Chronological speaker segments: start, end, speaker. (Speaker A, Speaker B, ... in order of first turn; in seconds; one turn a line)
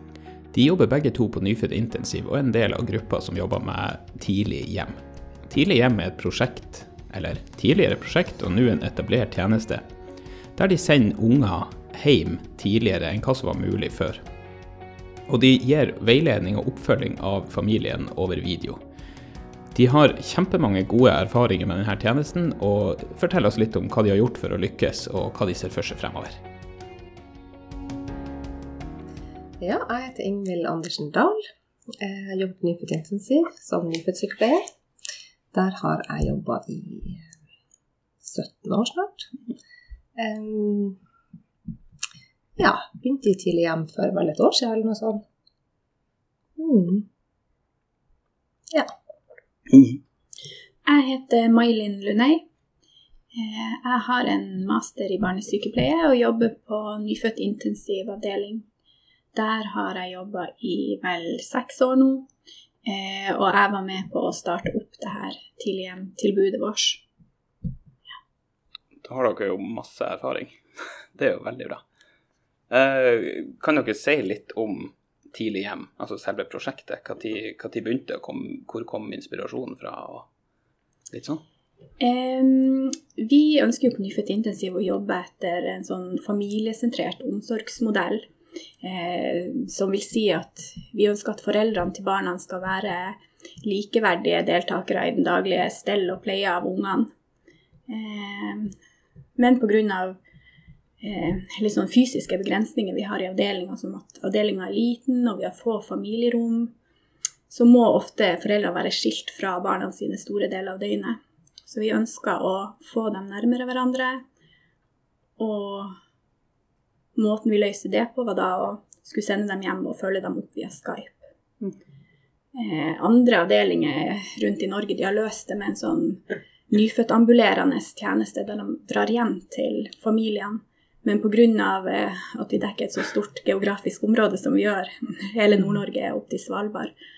Speaker A: 0.5-9.8
Speaker A: 10.6-14.2
Speaker A: 15.3-18.8
Speaker A: 19.7-26.4
Speaker B: 29.6-34.6
Speaker B: 35.5-37.3
Speaker B: 38.2-39.3
Speaker B: 40.2-41.0
Speaker B: 42.6-45.2
Speaker B: 46.6-47.1
Speaker A: 49.7-50.0
Speaker C: 50.9-52.5
Speaker C: 53.3-58.7
Speaker C: 59.3-62.3
Speaker C: 62.9-67.0
Speaker A: 69.0-70.6
Speaker A: 71.2-71.8
Speaker A: 72.7-80.3
Speaker A: 81.1-81.4
Speaker C: 82.0-88.3
Speaker C: 88.8-97.1
Speaker C: 97.9-98.8
Speaker C: 99.4-100.2
Speaker C: 101.0-106.7
Speaker C: 107.5-114.2
Speaker C: 115.4-115.9
Speaker C: 117.2-121.2
Speaker C: 122.5-136.9